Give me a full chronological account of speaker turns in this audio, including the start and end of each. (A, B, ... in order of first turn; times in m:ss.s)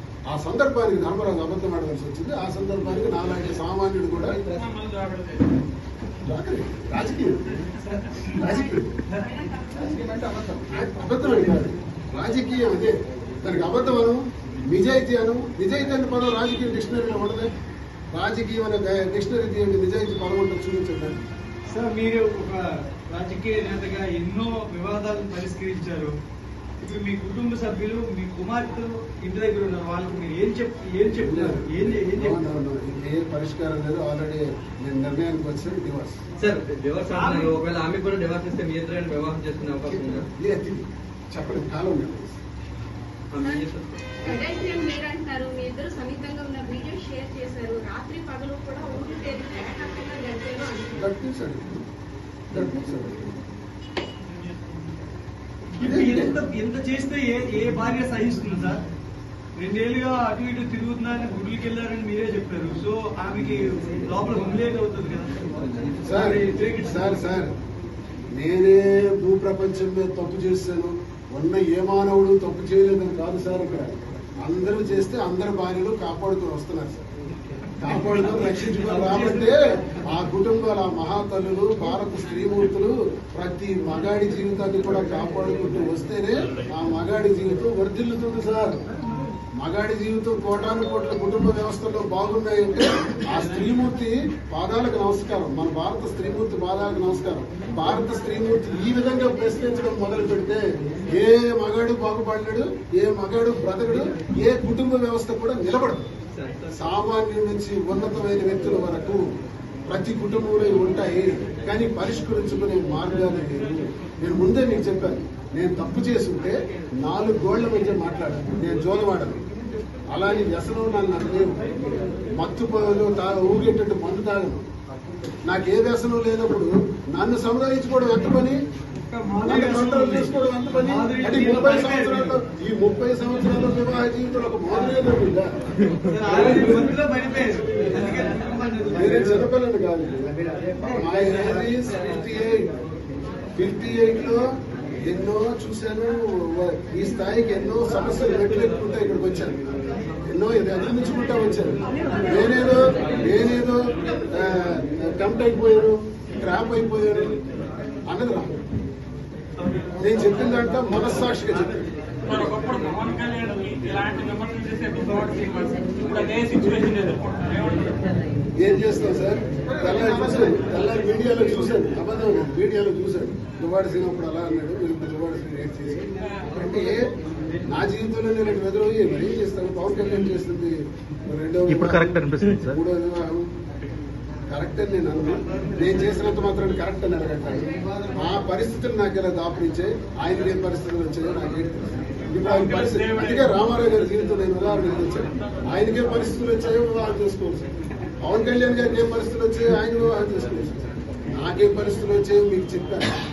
0:00.3-0:04.4 A
0:04.6-0:05.5 B
0:06.2-0:07.6 A
0:07.9-0:08.6 C
0:08.4-0:09.0 A
0:09.2-0:10.3 C
0:10.7-0:17.5 A
0:18.1-0:21.2 A
0:21.7-0:26.1 C
0:26.8-0:32.4 C
0:31.2-0:36.2 A
0:36.4-0:40.3 D
0:37.1-0:37.6 C
0:39.9-0:42.4 A
0:43.3-0:44.2 D
0:44.2-0:51.0 E
0:51.0-0:51.9 A
0:52.5-0:53.3 A
0:55.8-0:58.8 C
0:55.8-0:56.4 A
0:59.6-1:05.4 C
1:06.0-1:07.2 C
1:06.0-1:07.5 A
1:08.3-1:17.0 A
1:17.8-1:28.8 A
1:17.8-1:19.6 C
1:29.6-1:40.6 A
1:41.1-1:46.1 A
1:46.3-1:46.7 D
1:46.7-1:49.3 A
1:49.9-1:59.4 A
2:00.1-2:04.6 A
2:05.4-2:08.6 A
2:09.0-2:12.4 C
2:09.4-2:15.5 A
2:15.9-2:16.6 D
2:16.0-2:19.5 C
2:18.9-2:22.7 A
2:23.6-2:24.4 A
2:25.0-2:29.6 A
2:30.2-2:37.4 A
2:38.1-2:38.5 A
2:39.6-2:42.6 C
2:40.0-2:41.7 A
2:42.3-2:48.0 B
2:46.5-2:47.1 A
2:48.6-2:57.1 A
2:57.7-3:03.5 A
3:01.7-3:02.8 D
3:04.5-3:17.7 A
3:05.3-3:06.4 C
3:18.2-3:23.1 A